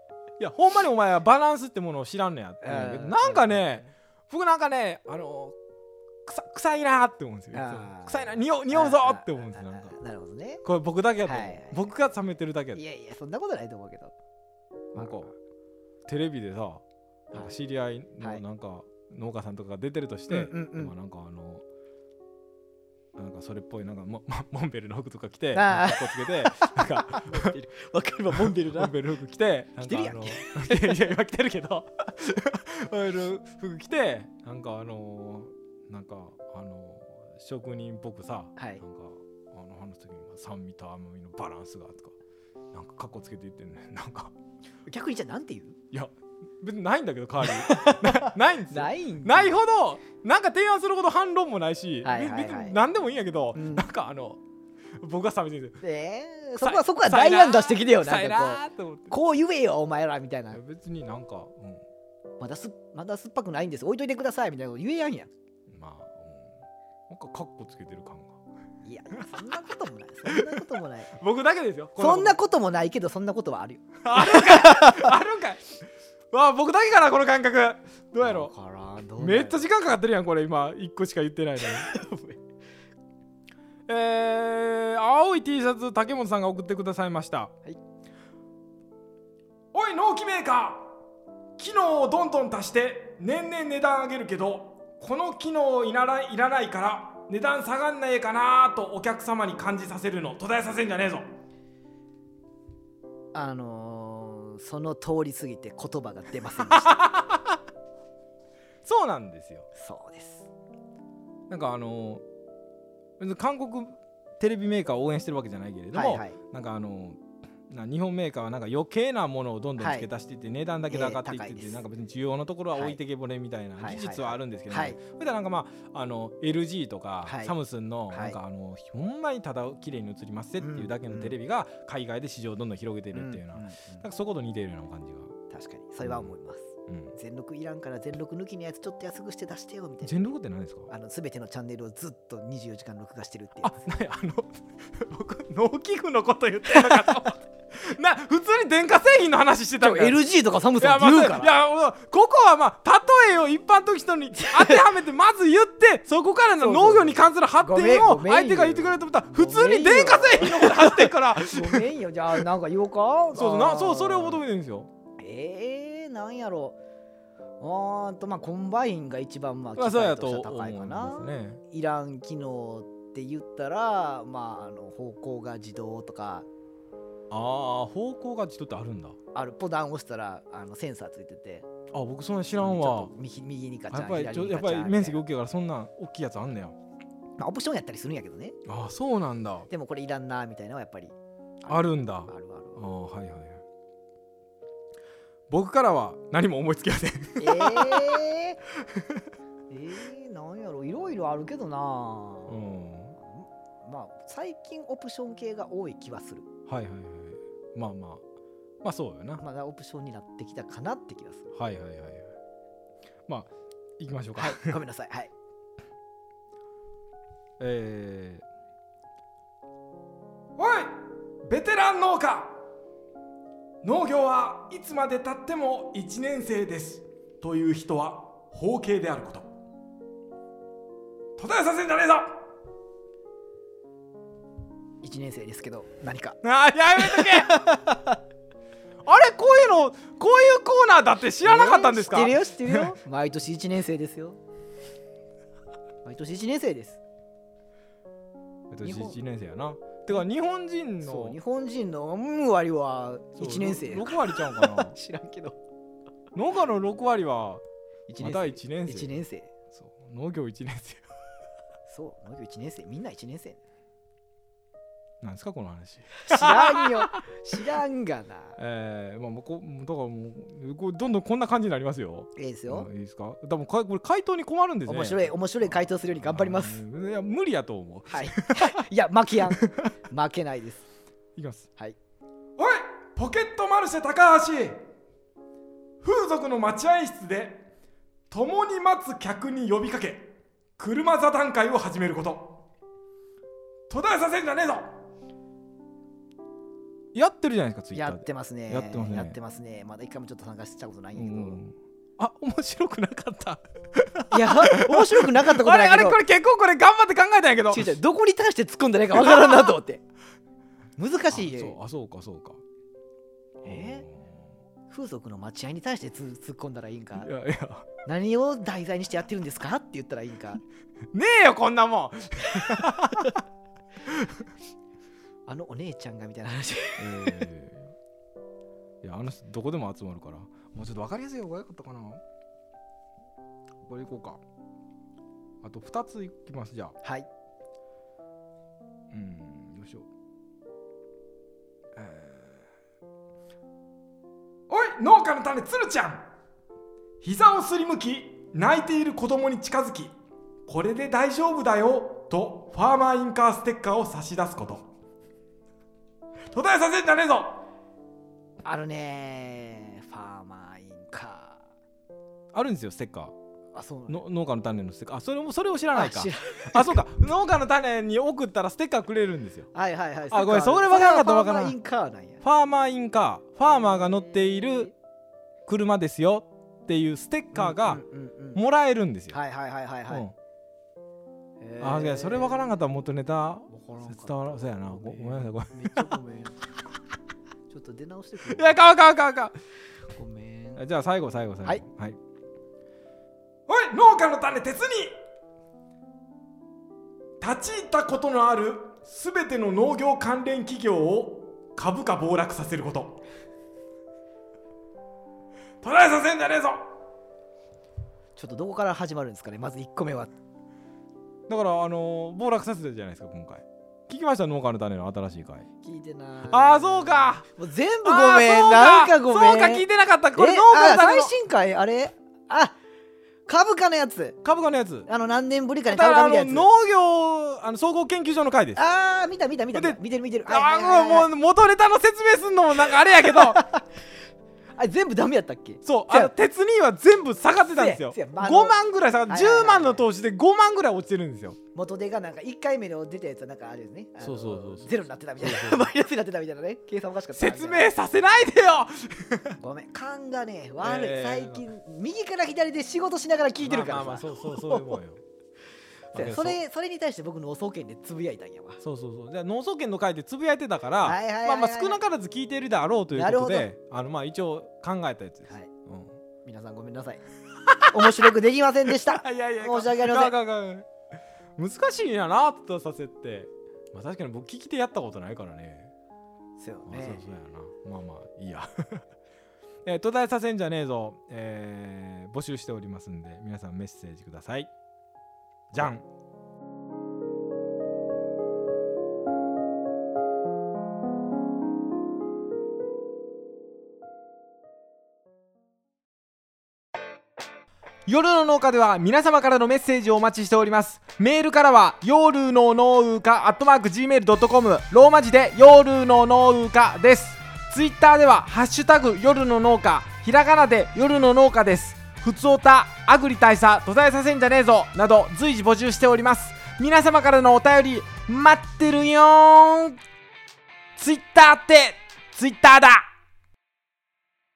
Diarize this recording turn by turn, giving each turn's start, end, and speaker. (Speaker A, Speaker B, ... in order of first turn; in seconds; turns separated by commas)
Speaker A: 0.4-5.6, Speaker B: 2.6-3.7, Speaker A: 6.3-10.0, Speaker B: 7.5-10.6, Speaker A: 10.6-12.8, Speaker B: 11.3-11.9, Speaker B: 12.8-14.1, Speaker A: 14.9-15.3, Speaker B: 14.9-15.3, Speaker A: 16.1-21.6, Speaker B: 20.3-20.9, Speaker A: 23.1-27.5, Speaker B: 25.5-29.0, Speaker A: 28.4-42.1, Speaker B: 29.8-31.1, Speaker B: 38.6-38.8, Speaker A: 42.7-44.3, Speaker B: 44.9-45.8, Speaker A: 45.9-54.4, Speaker B: 47.4-49.6, Speaker B: 52.0-52.8, Speaker B: 53.5-53.9, Speaker A: 55.0-55.8, Speaker B: 55.8-60.6, Speaker A: 56.6-59.1, Speaker A: 60.5-61.8, Speaker B: 62.4-65.3, Speaker A: 65.7-66.6, Speaker A: 67.1-68.4, Speaker B: 68.8-71.1, Speaker A: 70.3-72.4, Speaker B: 72.0-75.1, Speaker A: 74.0-75.8, Speaker A: 76.3-78.5, Speaker B: 78.2-79.7, Speaker A: 79.2-81.9, Speaker B: 81.6-82.4, Speaker A: 83.9-87.5, Speaker A: 89.7-90.9, Speaker A: 91.6-101.3, Speaker B: 103.3-107.0, Speaker A: 106.7-107.6, Speaker A: 108.8-109.7, Speaker B: 109.8-110.5, Speaker A: 111.5-112.2, Speaker A: 113.2-135.3, Speaker B: 115.9-116.4, Speaker B: 119.8-120.1, Speaker B: 120.9-121.8, Speaker B: 122.7-123.0, Speaker B: 123.8-125.0, Speaker B: 127.2-127.5, Speaker B: 128.1-128.4, Speaker B: 130.6-131.3, Speaker B: 133.1-134.0, Speaker B: 135.5-140.2, Speaker A: 136.0-136.3, Speaker A: 136.9-137.1, Speaker A: 140.0-140.9, Speaker B: 140.9-143.8, Speaker A: 143.6-150.2, Speaker B: 146.7-147.2, Speaker B: 149.8-151.5, Speaker A: 150.8-161.9, Speaker B: 154.4-154.8, Speaker B: 156.6-164.4, Speaker A: 163.3-164.9, Speaker B: 165.2-166.8, Speaker B: 167.6-176.5, Speaker A: 169.8-171.6, Speaker A: 177.3-179.2, Speaker B: 179.3-181.7, Speaker A: 181.9-183.1, Speaker B: 182.6-185.2, Speaker A: 183.9-186.8, Speaker B: 187.4-188.6, Speaker A: 188.7-189.7, Speaker B: 189.7-192.8, Speaker A: 191.7-193.6, Speaker A: 195.5-198.2, Speaker B: 197.4-198.6, Speaker B: 199.7-202.6, Speaker A: 202.5-203.2, Speaker B: 203.2-206.5, Speaker A: 206.7-208.2, Speaker A: 208.8-209.4, Speaker B: 209.4-211.5, Speaker A: 211.5-212.3, Speaker A: 213.3-214.8, Speaker B: 214.4-215.3, Speaker A: 217.6-218.4, Speaker A: 220.6-222.6, Speaker A: 223.8-229.5, Speaker A: 231.4-232.4, Speaker B: 235.0-236.4, Speaker A: 236.4-237.7, Speaker B: 237.0-238.2, Speaker A: 239.1-242.9, Speaker B: 241.4-244.4, Speaker B: 246.1-247.0, Speaker A: 248.7-251.4, Speaker B: 248.8-249.2, Speaker B: 251.0-255.6, Speaker A: 253.4-255.0, Speaker A: 256.3-257.6, Speaker B: 258.1-259.5, Speaker A: 258.2-259.2, Speaker A: 259.7-261.0, Speaker B: 261.9-263.6, Speaker A: 265.2-267.2, Speaker B: 266.3-268.6, Speaker A: 268.6-278.8, Speaker B: 272.4-272.9, Speaker B: 274.9-276.8, Speaker B: 278.1-280.8, Speaker A: 279.5-279.9, Speaker A: 281.4-281.7, Speaker A: 282.6-284.8, Speaker A: 286.0-287.7, Speaker A: 288.3-292.6, Speaker A: 293.9-294.9, Speaker A: 297.1-299.4, Speaker B: 297.9-301.6, Speaker A: 301.1-308.0, Speaker B: 304.3-306.2, Speaker B: 307.7-310.0, Speaker B: 311.0-311.8, Speaker A: 311.3-312.6, Speaker B: 313.6-314.1, Speaker A: 313.6-314.4, Speaker B: 314.9-317.3, Speaker A: 317.2-317.9, Speaker B: 318.1-320.6, Speaker A: 321.1-323.4, Speaker B: 325.5-327.5, Speaker A: 327.0-327.9, Speaker A: 329.0-332.2, Speaker A: 333.9-334.4, Speaker A: 335.6-336.9, Speaker B: 337.0-337.3, Speaker A: 339.1-340.1, Speaker A: 341.9-342.6, Speaker A: 344.7-346.2, Speaker A: 347.2-350.1, Speaker A: 350.7-354.9, Speaker A: 356.5-357.6, Speaker B: 358.6-361.6, Speaker A: 362.5-363.4, Speaker B: 363.7-364.2, Speaker A: 364.1-369.7, Speaker B: 365.9-367.0, Speaker B: 369.7-372.4, Speaker A: 370.3-371.8, Speaker A: 372.4-374.9, Speaker A: 375.7-378.0, Speaker B: 377.5-378.6, Speaker A: 378.5-379.4, Speaker B: 379.3-380.3, Speaker B: 381.6-382.6, Speaker A: 381.8-386.2, Speaker B: 383.7-386.6, Speaker B: 387.7-388.8, Speaker A: 388.4-389.6, Speaker B: 390.1-390.8, Speaker A: 390.8-392.2, Speaker A: 393.7-395.1, Speaker A: 397.4-403.2, Speaker A: 405.8-406.9, Speaker B: 408.4-410.3, Speaker A: 411.5-415.7, Speaker B: 415.8-422.8, Speaker A: 416.5-417.5, Speaker A: 418.0-421.3, Speaker B: 423.5-424.4, Speaker A: 424.4-425.1, Speaker B: 425.1-426.7, Speaker A: 425.9-428.8, Speaker B: 428.8-431.3, Speaker A: 429.7-433.7, Speaker B: 433.2-433.9, Speaker B: 434.8-436.3, Speaker A: 435.9-441.6, Speaker B: 437.7-438.8, Speaker B: 439.3-440.1, Speaker B: 441.8-447.9, Speaker A: 444.2-445.9, Speaker A: 447.4-449.6, Speaker B: 449.6-455.0, Speaker A: 450.8-451.7, Speaker A: 453.6-455.2, Speaker A: 456.1-456.6, Speaker B: 456.1-458.8, Speaker A: 458.8-466.2, Speaker B: 461.0-462.0, Speaker B: 463.1-463.7, Speaker B: 466.4-467.2, Speaker B: 467.9-470.4, Speaker A: 469.1-470.9, Speaker A: 471.6-475.9, Speaker B: 476.6-477.2, Speaker A: 476.9-479.0, Speaker A: 479.9-484.7, Speaker A: 485.7-486.1, Speaker C: 498.1-519.2, Speaker A: 512.0-512.2, Speaker A: 518.2-519.9, Speaker C: 521.0-521.8, Speaker A: 521.0-522.4, Speaker C: 522.4-522.9